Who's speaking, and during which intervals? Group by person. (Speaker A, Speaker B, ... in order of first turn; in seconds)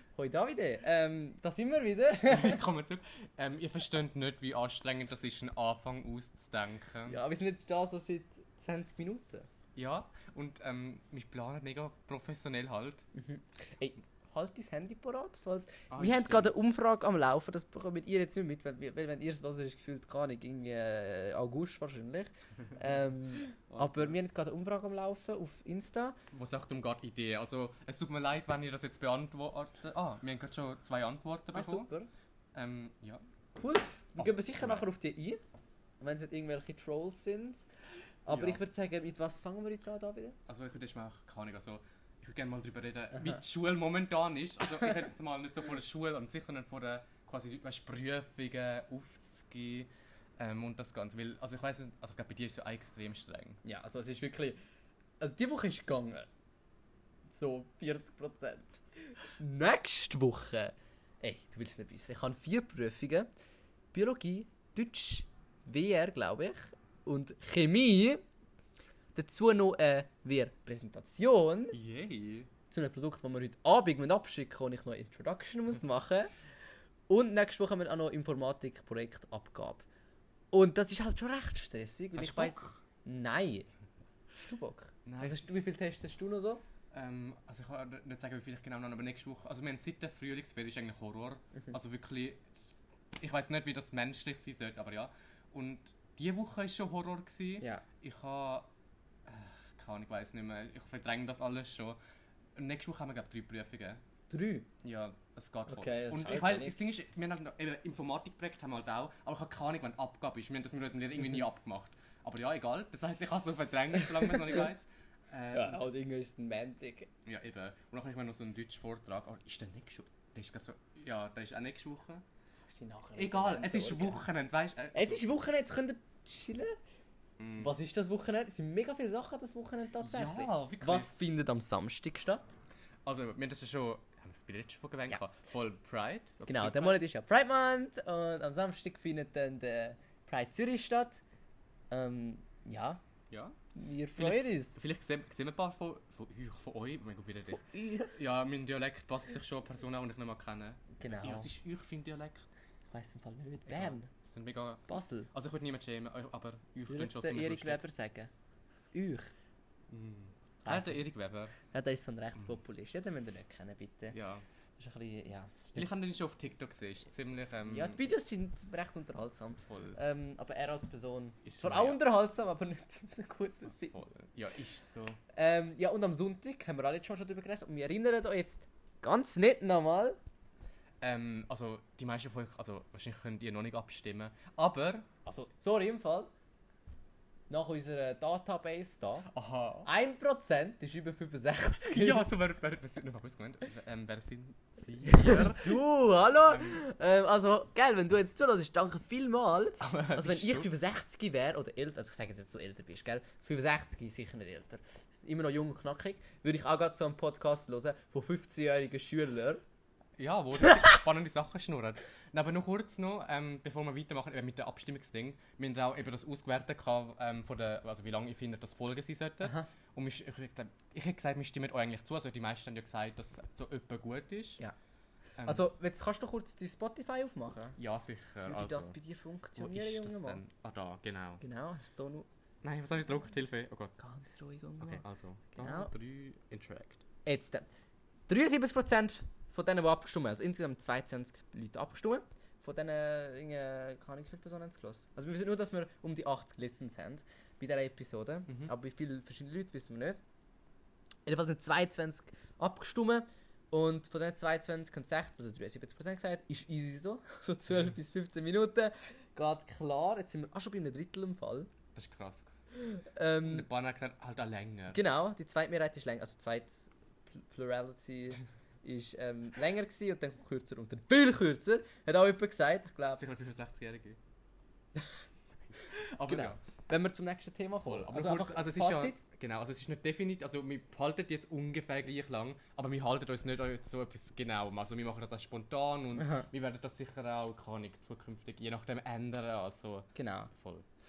Speaker A: 0.2-2.6, 7.1-9.5, 13.1-26.2, 31.5-32.1, 33.5-35.4, 36.0-37.6, 38.2-40.4, 53.6-54.6, 55.2-56.3, 57.3-63.3, 63.9-68.2, 69.1-71.8, 72.7-76.3, 77.1-79.8, 80.5-83.7, 84.3-86.6, 104.3-104.7, 105.7-106.8, 115.5-117.1, 122.7-124.2, 124.9-126.7, 127.6-132.6, 136.4-141.2, 141.9-143.0, 143.7-144.8, 147.7-148.1, 151.0-151.5, 152.9-154.1, 154.9-155.3, 156.8-158.3, 158.9-159.3, 160.7-161.1, 161.7-164.2, 164.8-165.9, 167.6-173.9, 175.3-180.2, 185.2-186.3, 187.5-189.3, 189.8-192.3, 195.1-209.6, 225.4-227.8, 228.4-230.4, 231.4-232.3, 234.0-235.0, 235.6-235.9, 237.2-237.7, 238.3-250.2, 251.2-261.7, 262.9-263.7, 264.9-273.2, 276.2-279.2, 286.2-286.5, 290.1-290.5
Speaker B: 2.3-7.2, 9.8-13.1, 15.9-16.6, 23.7-24.1, 26.3-31.9, 32.5-33.2, 34.1-34.8, 38.3-38.6, 40.5-53.6, 71.7-72.5, 82.2-82.8, 85.0-85.5, 86.9-98.7, 99.2-102.0, 102.5-104.0, 104.8-115.8, 117.2-122.2, 123.2-125.2, 127.4-127.7, 130.0-131.1, 133.0-137.0, 143.3-143.5, 144.2-152.5, 153.7-157.8, 159.9-161.5, 164.1-164.4, 165.7-168.0, 169.7-170.0, 171.4-172.0, 173.8-175.2, 181.0-185.1, 189.3-189.9, 191.8-195.8, 196.4-196.8, 199.8-200.7, 210.2-224.6, 225.4-225.6, 227.8-229.0, 229.6-231.4, 232.6-233.9, 234.8-237.0, 261.9-262.5, 263.4-265.0, 273.1-274.2, 275.8-276.6, 277.8-290.8